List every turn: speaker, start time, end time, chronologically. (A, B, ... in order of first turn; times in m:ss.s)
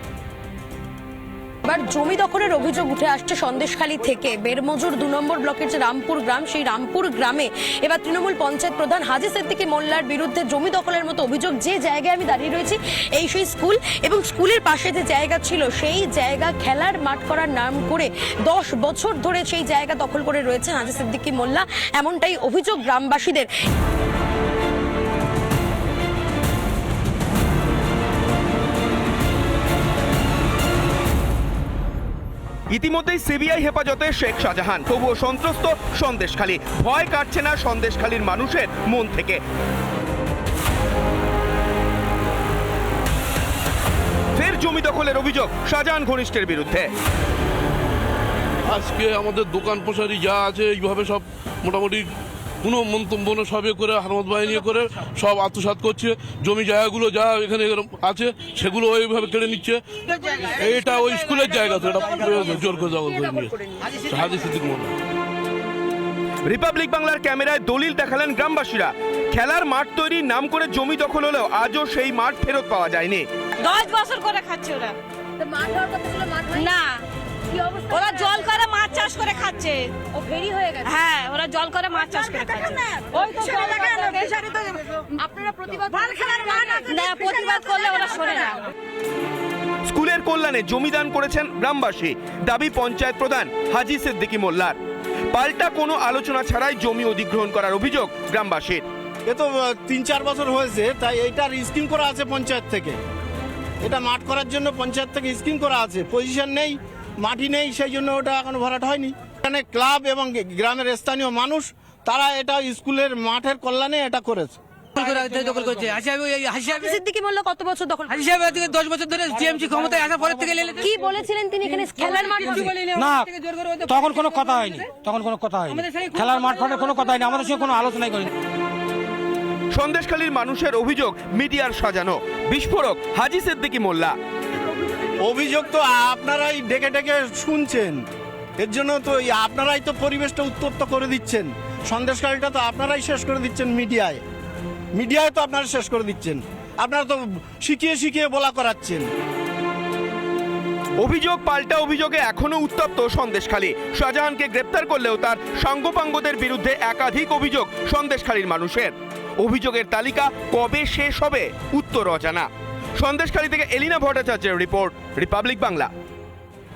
0:01.6-0:23.5 A
0:32.7-0:39.4 B
0:44.4-0:46.9 B
0:48.7-0:52.1 C
0:52.6-1:05.0 C
1:06.5-1:13.3 B
1:13.6-1:15.0 D
1:15.7-1:17.0 D
1:17.7-1:24.8 D
1:23.4-1:24.3 E
1:25.7-1:26.8 E
1:25.9-1:28.6 D
1:29.9-1:34.8 B
1:35.3-1:38.8 B
1:39.3-1:43.0 F
1:43.8-1:54.6 F
1:56.7-1:58.7 A
1:59.7-2:00.0 G
2:00.8-2:02.8 A
2:02.9-2:03.3 G
2:03.8-2:08.3 G
2:09.7-2:14.2 B
2:15.2-2:18.0 F
2:18.6-2:24.2 F
2:24.9-2:29.1 F
2:31.0-2:45.9 B